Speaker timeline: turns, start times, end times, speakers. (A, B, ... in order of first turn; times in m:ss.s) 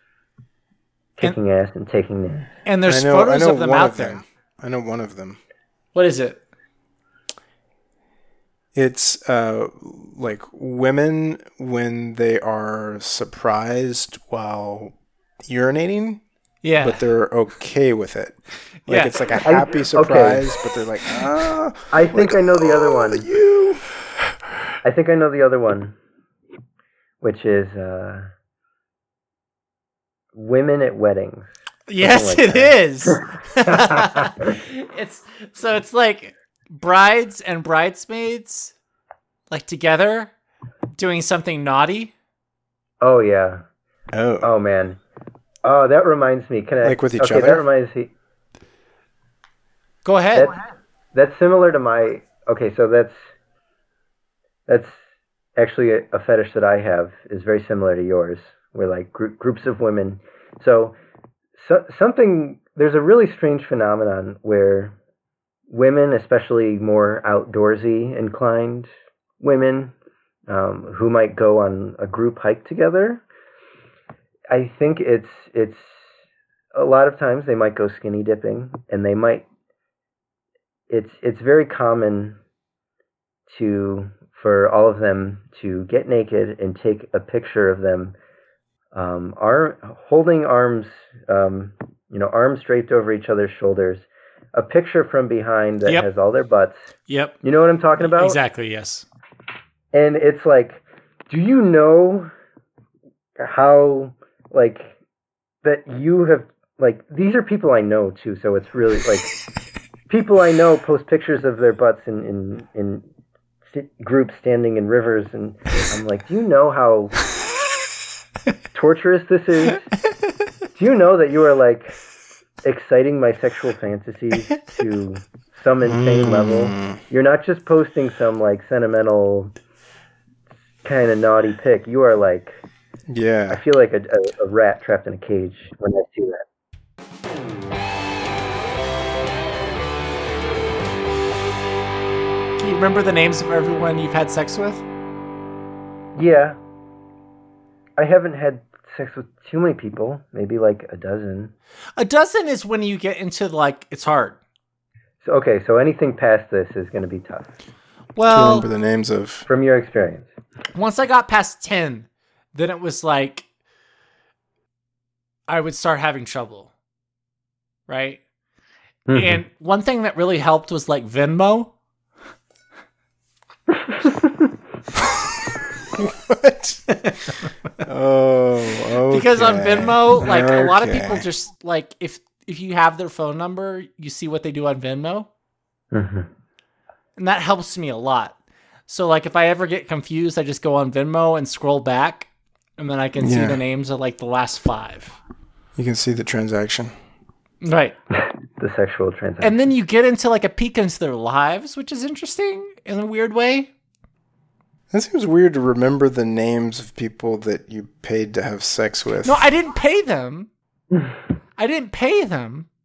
0:01.2-0:02.5 A
0:02.6-0:04.2 B
0:02.8-0:05.4 C
0:05.9-0:06.4 B
0:08.7-0:14.9 C
0:15.5-0:16.2 C
0:16.6-0:17.0 B
0:16.8-0:18.4 C
0:18.9-0:19.3 B
0:18.9-0:23.8 C
0:19.4-0:20.4 A
0:21.9-0:23.3 A
0:24.8-0:26.0 A
0:27.2-0:28.3 A
0:30.3-0:34.5 A
0:31.9-0:38.7 B
0:39.5-0:40.3 B
0:40.9-0:42.1 B
0:43.0-0:43.6 A
0:44.1-0:44.5 C
0:44.4-0:45.0 A
0:45.6-0:48.1 A
0:46.8-0:47.6 C
0:50.0-0:50.5 B
0:51.1-0:53.2 A
0:54.7-0:55.0 A
0:55.6-1:01.0 A
1:01.6-1:05.0 A
1:05.7-1:09.9 A
1:10.5-1:13.2 A
1:14.5-1:16.0 A
1:16.7-1:19.4 A
1:20.9-1:22.4 A
1:23.5-1:28.2 A
1:28.9-1:36.8 A
1:37.1-1:37.4 B
1:37.4-1:38.4 A
1:38.0-1:39.0 B
1:39.9-1:42.3 A
1:43.4-1:44.9 A
1:45.6-1:49.3 A
1:50.1-1:53.0 A
1:53.7-1:57.2 A
1:58.7-1:59.8 A
2:00.7-2:01.9 A
2:02.6-2:09.5 A
2:05.8-2:07.0 C
2:10.8-2:12.6 A
2:13.1-2:13.6 C
2:13.5-2:16.4 A
2:22.6-2:24.8 B
2:26.1-2:26.6 A
2:28.0-2:31.5 A
2:32.0-2:34.4 B
2:35.2-2:37.5 A
2:38.2-2:38.7 B
2:38.3-2:39.5 C
2:39.5-2:40.3 A
2:40.7-2:43.4 B
2:45.5-2:46.7 B
2:47.9-2:48.2 B
2:49.1-2:49.4 A
2:49.1-2:51.7 B
2:56.0-2:56.8 C
2:57.8-3:01.2 C
2:59.1-3:05.3 B
3:05.9-3:06.3 A
3:07.2-3:08.3 B
3:08.9-3:15.2 B
3:13.2-3:13.6 C
3:15.8-3:16.9 C
3:17.6-3:17.9 B
3:18.1-3:19.6 A
3:19.4-3:23.7 B
3:24.9-3:29.5 C
3:29.2-3:30.5 B
3:31.6-3:32.7 B